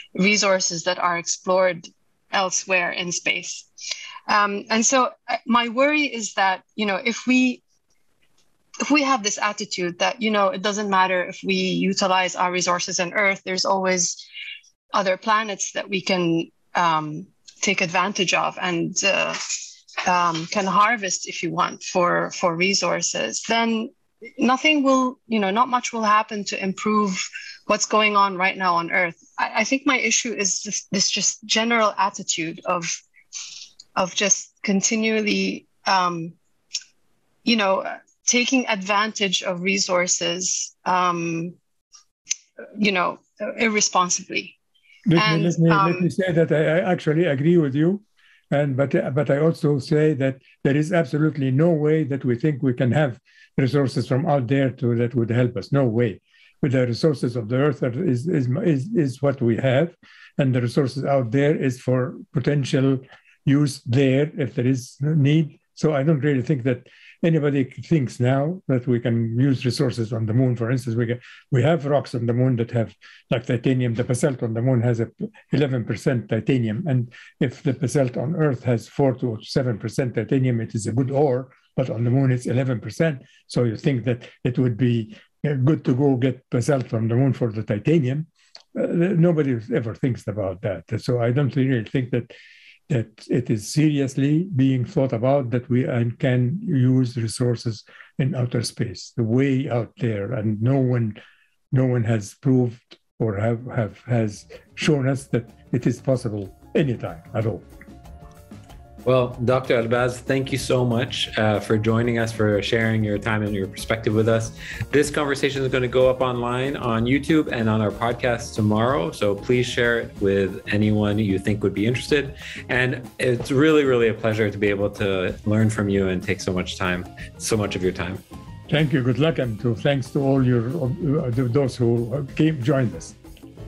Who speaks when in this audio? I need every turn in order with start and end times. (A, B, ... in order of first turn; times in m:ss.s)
0:00.1-0:03.7 A
0:04.3-0:07.6 A
0:08.8-0:14.2 A
0:14.9-0:19.4 A
0:20.0-0:33.0 A
0:33.9-0:36.4 A
0:37.4-0:41.6 A
0:42.7-0:44.6 A
0:45.0-1:32.3 B
0:45.2-0:46.1 A
1:32.9-1:41.2 B
1:41.7-1:47.6 B
1:49.0-2:08.2 C
2:08.7-2:13.2 B